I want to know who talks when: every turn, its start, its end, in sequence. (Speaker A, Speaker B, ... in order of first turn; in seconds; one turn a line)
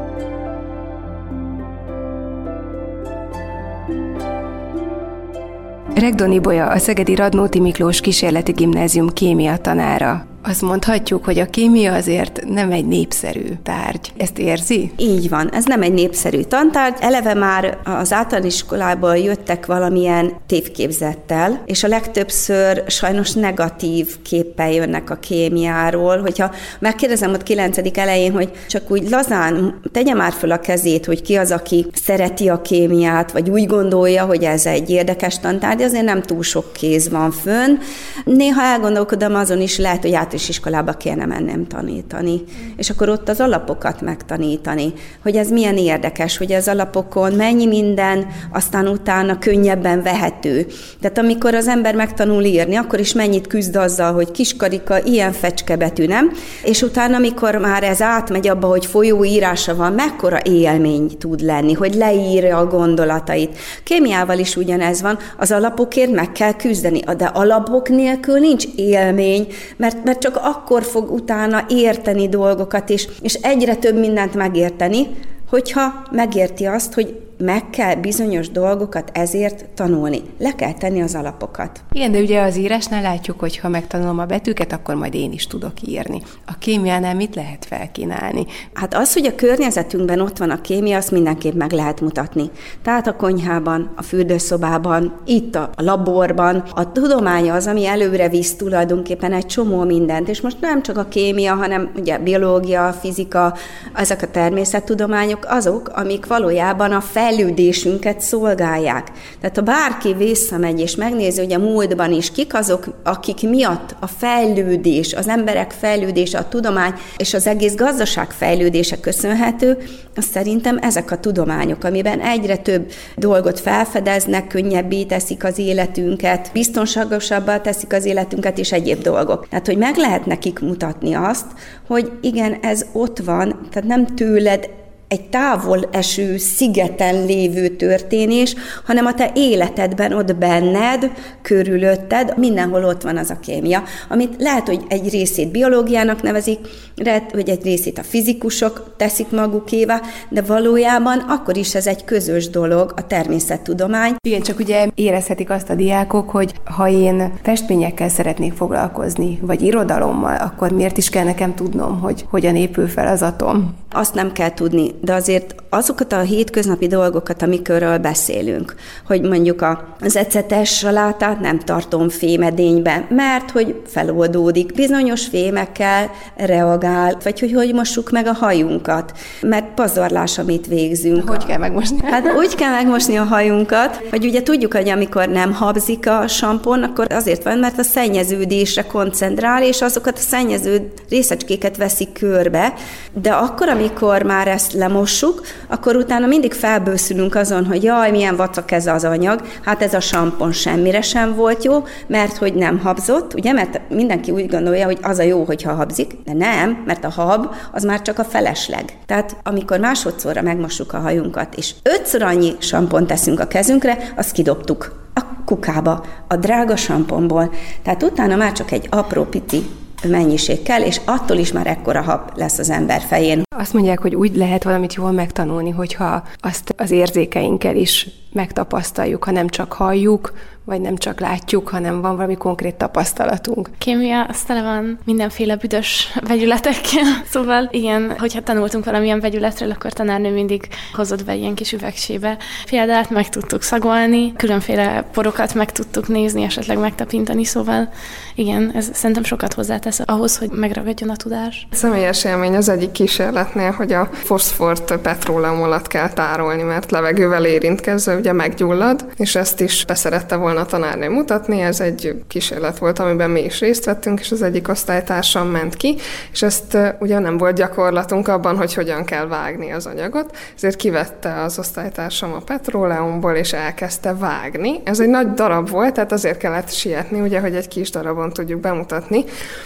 Speaker A: 6.0-15.0
Speaker B: 15.0-81.8
Speaker A: 81.9-88.5
Speaker B: 88.8-154.2
Speaker A: 154.2-163.8
Speaker B: 163.9-181.5
Speaker A: 181.2-182.3
Speaker B: 182.1-223.5
Speaker A: 223.5-233.7
Speaker C: 233.8-251.7
Speaker D: 251.7-279.3